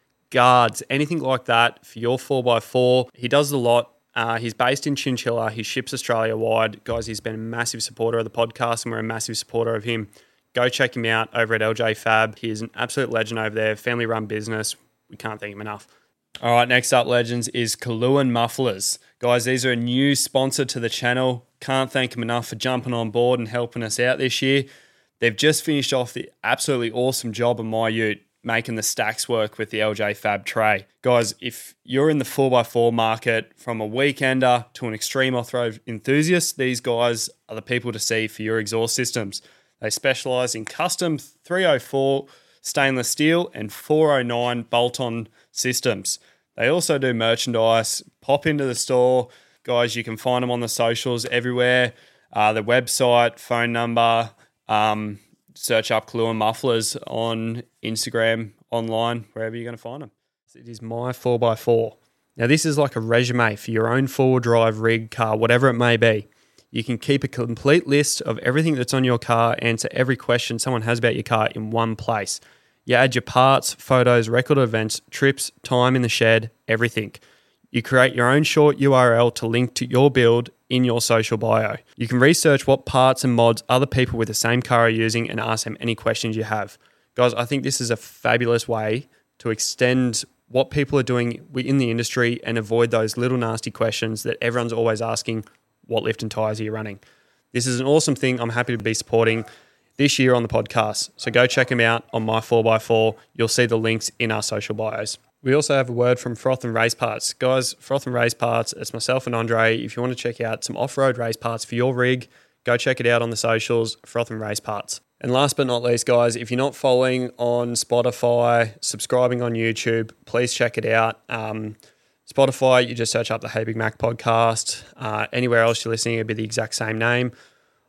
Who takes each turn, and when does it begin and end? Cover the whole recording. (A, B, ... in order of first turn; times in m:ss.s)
0:00.3-0:15.9 A
0:16.4-0:24.7 A
0:25.2-1:17.2 A
1:17.7-1:37.0 A
1:37.5-2:07.3 A